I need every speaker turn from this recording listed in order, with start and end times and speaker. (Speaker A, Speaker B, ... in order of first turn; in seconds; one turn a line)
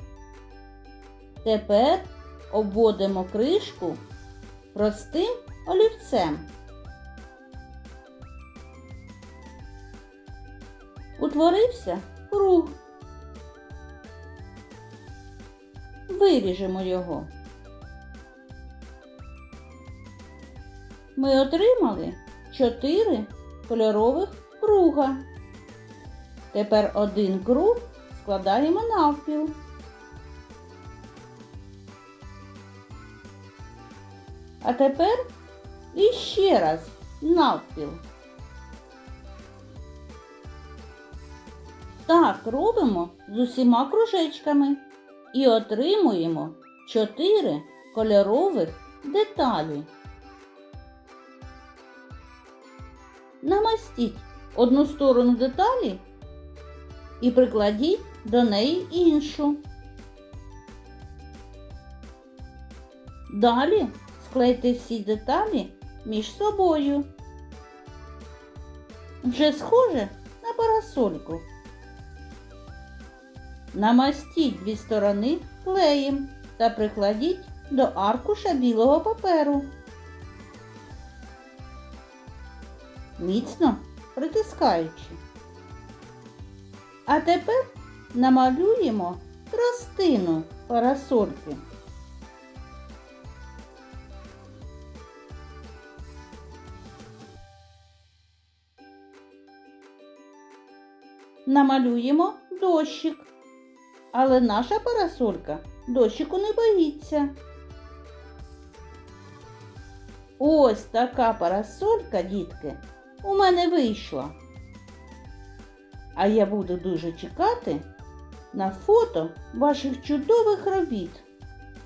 Speaker A: 1.4-4.0
Speaker A: 4.7-6.5
Speaker A: 11.2-12.8
Speaker A: 16.1-17.3
Speaker A: 21.2-25.2
Speaker A: 26.5-29.6
Speaker A: 34.6-35.2
Speaker A: 35.9-38.0
Speaker A: 42.1-49.9
Speaker A: 53.4-56.1
Speaker A: 57.2-59.6
Speaker A: 63.3-67.1
Speaker A: 69.2-71.5
Speaker A: 73.7-79.7
Speaker A: 83.2-85.2
Speaker A: 87.0-91.7
Speaker A: 101.5-103.3
Speaker A: 104.1-107.3
Speaker A: 110.4-114.4
Speaker A: 116.2-117.9
Speaker A: 118.5-121.3